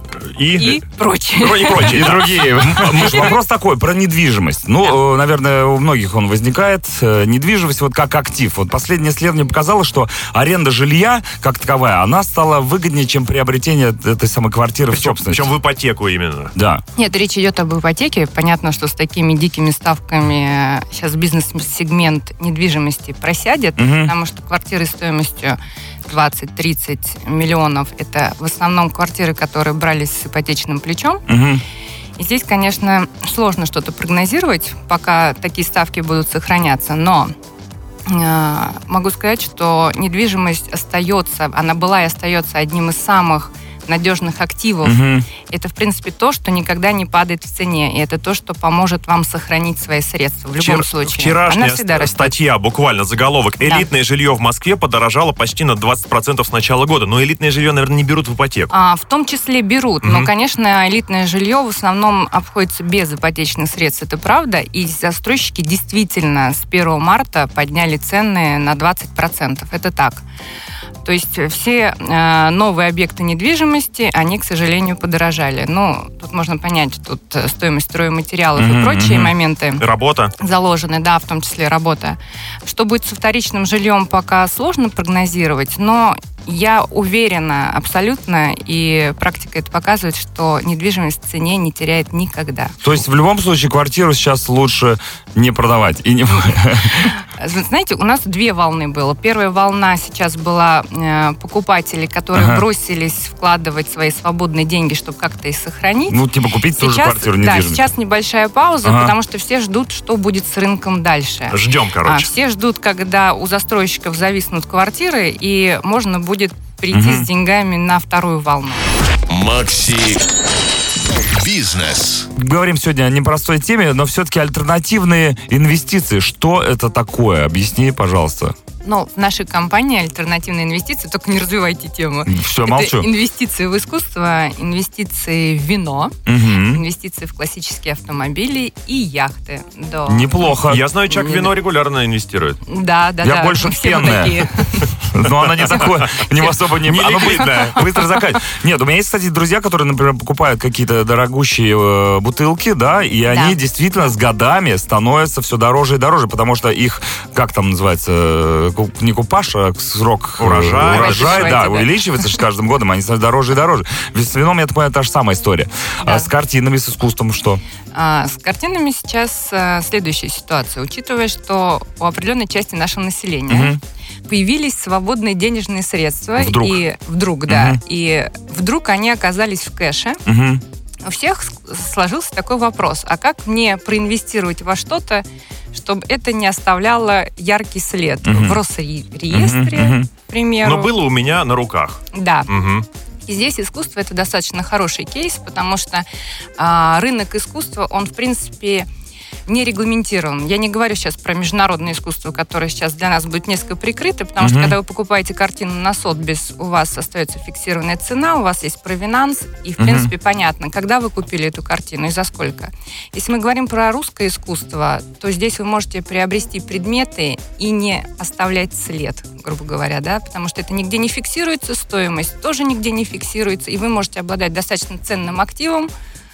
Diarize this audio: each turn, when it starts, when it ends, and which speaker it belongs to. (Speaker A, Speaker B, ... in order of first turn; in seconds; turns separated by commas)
Speaker A: 0.3-0.8, Speaker B: 0.5-2.1, Speaker A: 1.4-3.3, Speaker C: 1.8-15.5, Speaker A: 14.9-16.5, Speaker C: 16.5-16.8, Speaker B: 16.9-31.2, Speaker C: 23.8-24.1, Speaker C: 31.3-31.6, Speaker B: 32.2-37.3, Speaker B: 38.0-52.4, Speaker C: 44.8-45.3, Speaker A: 50.6-58.7, Speaker B: 53.6-53.9, Speaker B: 58.7-70.2, Speaker A: 60.0-60.3, Speaker B: 71.0-79.8, Speaker C: 78.5-79.3, Speaker A: 79.8-80.3, Speaker B: 80.4-92.8, Speaker C: 92.8-97.1, Speaker B: 96.5-106.2, Speaker C: 102.3-102.6, Speaker C: 106.1-107.9, Speaker B: 106.7-118.9, Speaker C: 108.8-109.1, Speaker A: 111.5-112.3, Speaker C: 116.9-117.3, Speaker D: 119.3-120.2, Speaker D: 121.1-122.3, Speaker C: 122.3-128.5, Speaker B: 128.8-140.5, Speaker C: 132.2-133.1, Speaker C: 136.2-136.8, Speaker C: 140.1-140.8, Speaker A: 140.6-142.6, Speaker B: 141.1-141.5, Speaker B: 142.7-144.9, Speaker C: 143.2-167.6, Speaker A: 145.3-146.2, Speaker A: 146.8-147.7, Speaker B: 153.3-154.1, Speaker A: 160.4-161.6, Speaker B: 160.8-162.3, Speaker B: 166.0-166.3, Speaker B: 167.9-180.2, Speaker C: 173.5-173.8, Speaker C: 176.4-176.7, Speaker C: 177.5-177.8, Speaker C: 180.2-180.6, Speaker B: 181.0-190.9, Speaker C: 188.2-188.6, Speaker C: 189.3-190.1, Speaker A: 190.6-192.8, Speaker B: 192.1-192.5, Speaker B: 193.2-196.1, Speaker B: 196.6-198.8, Speaker B: 199.5-225.9, Speaker C: 204.4-204.8, Speaker C: 209.8-210.1